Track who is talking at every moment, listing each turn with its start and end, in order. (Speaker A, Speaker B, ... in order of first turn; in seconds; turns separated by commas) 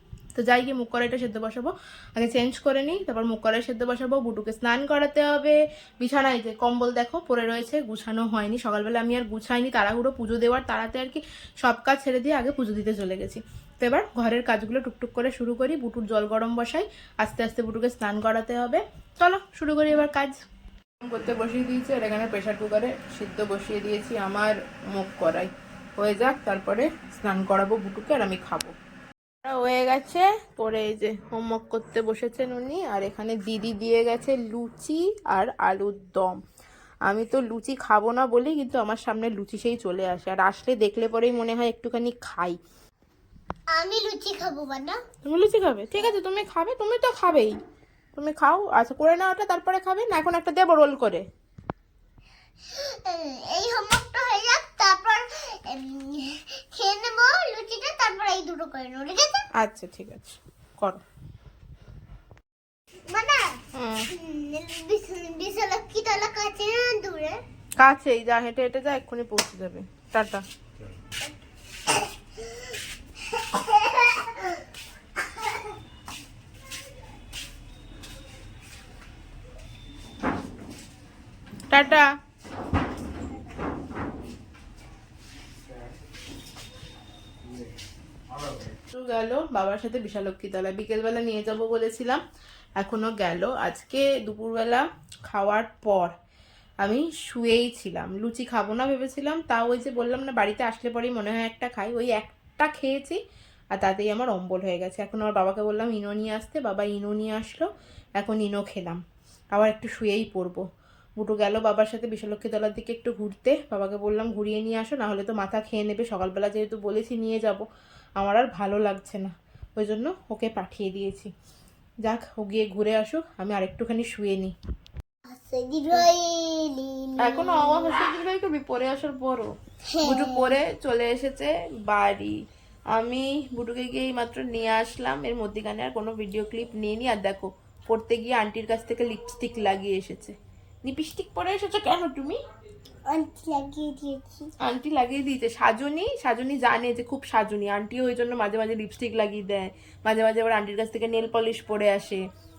Speaker A: 0.3-20.4, Speaker A: 21.0-28.7, Speaker A: 29.4-36.4, Speaker A: 37.1-42.6, Speaker B: 43.7-45.0, Speaker A: 45.2-47.6, Speaker A: 48.1-51.2, Speaker B: 52.7-59.5, Speaker A: 59.6-61.0, Speaker B: 63.1-67.4, Speaker A: 63.8-64.1, Speaker A: 67.8-70.4, Speaker B: 73.3-74.6, Speaker A: 81.7-82.1, Speaker A: 88.9-92.2, Speaker A: 92.8-96.2, Speaker A: 96.8-103.2, Speaker A: 103.7-107.7, Speaker A: 108.2-109.0, Speaker A: 109.5-110.6, Speaker A: 111.2-117.7, Speaker A: 118.2-121.3, Speaker A: 122.0-124.5, Speaker B: 125.3-128.0, Speaker A: 127.2-129.5, Speaker B: 129.9-130.6, Speaker A: 130.0-132.4, Speaker A: 132.9-142.4, Speaker B: 143.1-144.5, Speaker A: 144.6-152.2